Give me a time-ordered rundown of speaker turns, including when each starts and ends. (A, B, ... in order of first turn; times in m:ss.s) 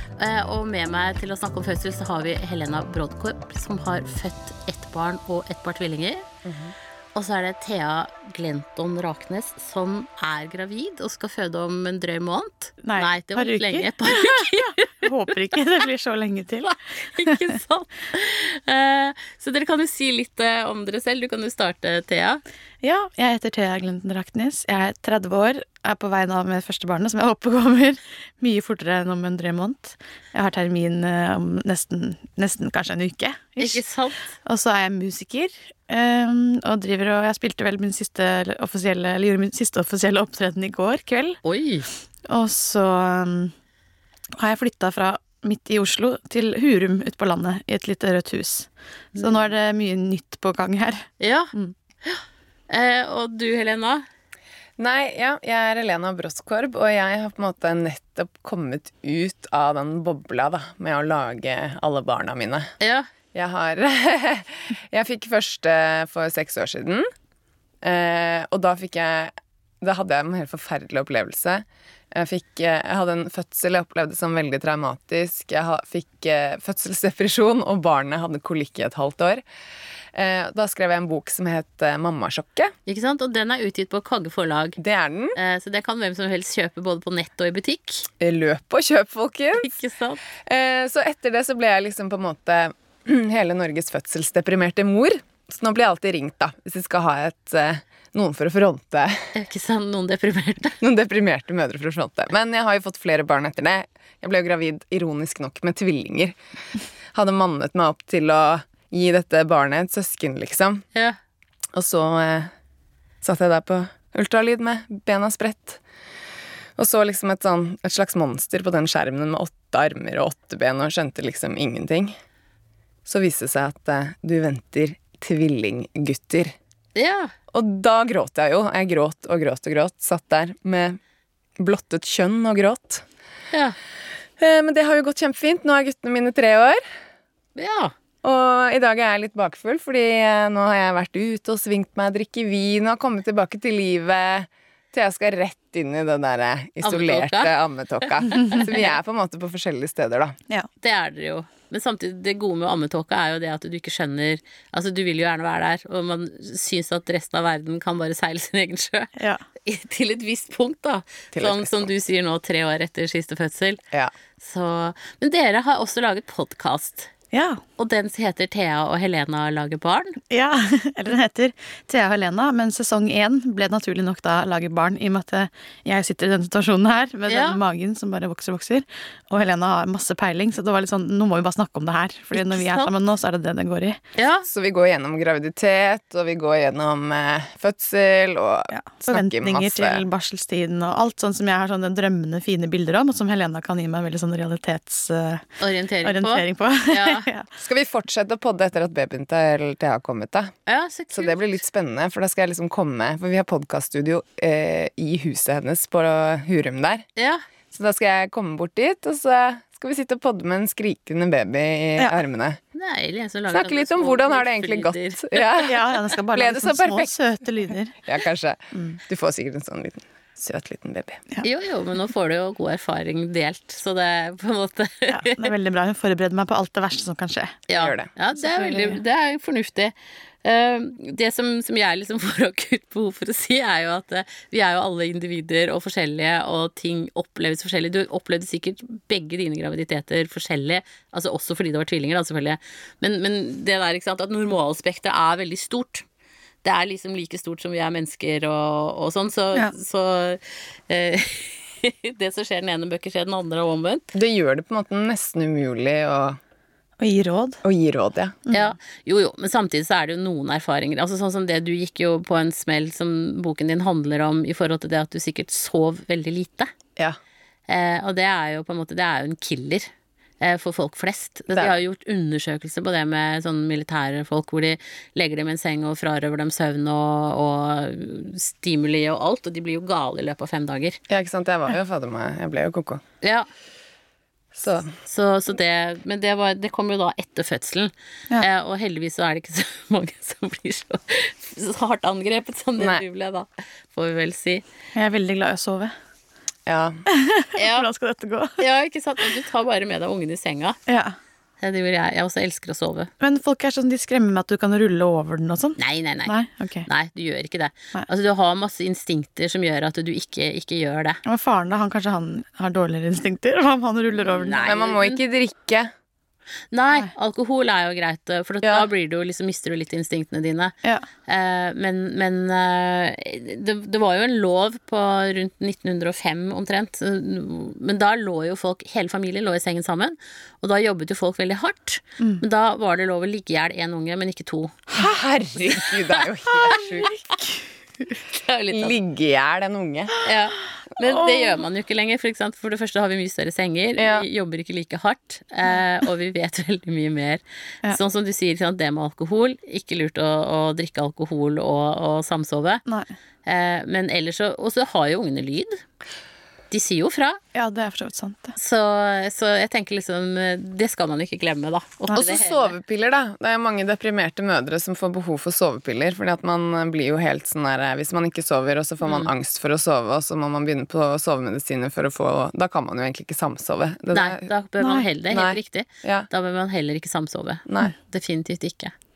0:00.2-0:06.2 A
0:06.4-0:06.8 B
0:07.1-0:15.1 A
0:12.8-0:17.6 C
0:17.0-0:22.4 A
0:22.8-0:33.8 C
0:33.6-0:34.3 A
0:34.4-0:41.4 C
0:41.4-0:41.9 A
0:42.3-0:43.5 C
0:44.4-0:51.7 C
0:51.2-0:51.5 A
0:52.0-0:54.0 A
0:54.8-1:02.7 B
1:02.8-1:03.1 A
1:03.3-1:07.1 B
1:07.8-1:19.4 B
1:20.1-1:22.7 B
1:22.9-1:24.8 A
1:24.8-1:25.4 B
1:25.3-1:28.1 A
1:28.2-1:29.7 B
1:29.5-1:30.2 A
1:30.4-1:39.3 B
1:39.3-1:40.8 A
1:40.8-1:46.4 B
1:47.1-1:50.8 B
1:51.7-1:52.5 B
1:53.2-1:55.8 B
1:56.8-2:02.1 B
2:03.1-2:06.5 B
2:07.0-2:07.3 A
2:07.5-2:11.0 B
2:11.6-2:13.0 B
2:14.4-2:16.8 B
2:17.6-2:17.9 A
2:18.2-2:30.4 B
2:26.8-2:27.5 A
2:28.3-2:28.7 A
2:30.8-2:39.1 A
2:39.2-2:39.4 C
2:39.6-2:43.8 A
2:41.3-2:41.9 B
2:44.4-2:47.1 A
2:47.3-2:47.6 C
2:47.8-2:50.2 A
2:50.3-3:04.0 C
2:57.3-2:57.6 A
3:02.3-3:02.9 A
3:04.2-3:04.4 A
3:04.4-3:10.0 B
3:08.7-3:17.5 C
3:15.6-3:17.2 A
3:17.6-3:20.5 B
3:20.7-3:21.4 A
3:21.1-3:27.0 B
3:27.2-3:27.4 A
3:27.7-3:32.6 B
3:32.7-3:35.2 A
3:33.5-3:37.1 B
3:35.6-3:38.0 C
3:38.0-3:41.2 B
3:41.4-3:45.5 A
3:45.1-3:47.6 C
3:47.7-4:06.0 A
3:47.7-3:48.1 B
3:48.4-3:49.0 C
4:06.6-4:14.1 A
4:14.1-4:16.4 B
4:17.0-4:17.6 C
4:17.6-4:18.4 B
4:18.5-4:18.7 C
4:18.5-4:26.7 A
4:27.7-4:41.0 A
4:41.1-4:43.0 B
4:43.2-4:43.5 A
4:44.5-4:44.9 B
4:45.0-4:54.6 A
4:52.8-4:53.0 B
4:54.9-4:55.9 C
4:56.7-4:57.0 B
4:57.1-4:58.6 C
4:57.6-4:57.9 A
4:58.6-5:00.8 A
5:00.9-5:01.1 C
5:01.6-5:03.1 A
5:03.2-5:06.9 C
5:05.8-5:06.3 A
5:06.9-5:11.2 A
5:11.2-5:14.7 C
5:14.2-5:15.2 A
5:14.6-5:15.9 B
5:16.7-5:20.7 A
5:21.3-5:34.9 A
5:34.9-5:37.2 B
5:36.6-5:37.1 C
5:38.2-5:39.0 A
5:38.7-5:40.2 B
5:40.2-5:52.8 A
5:44.0-5:44.2 B
5:52.9-5:53.1 C
5:53.4-5:55.8 A
5:56.7-5:57.4 A
5:57.5-5:58.6 C
5:58.6-6:02.7 A
6:02.1-6:14.5 B
6:09.0-6:09.3 A
6:14.1-6:18.9 A
6:14.8-6:15.1 C
6:15.3-6:16.3 B
6:17.7-6:17.9 B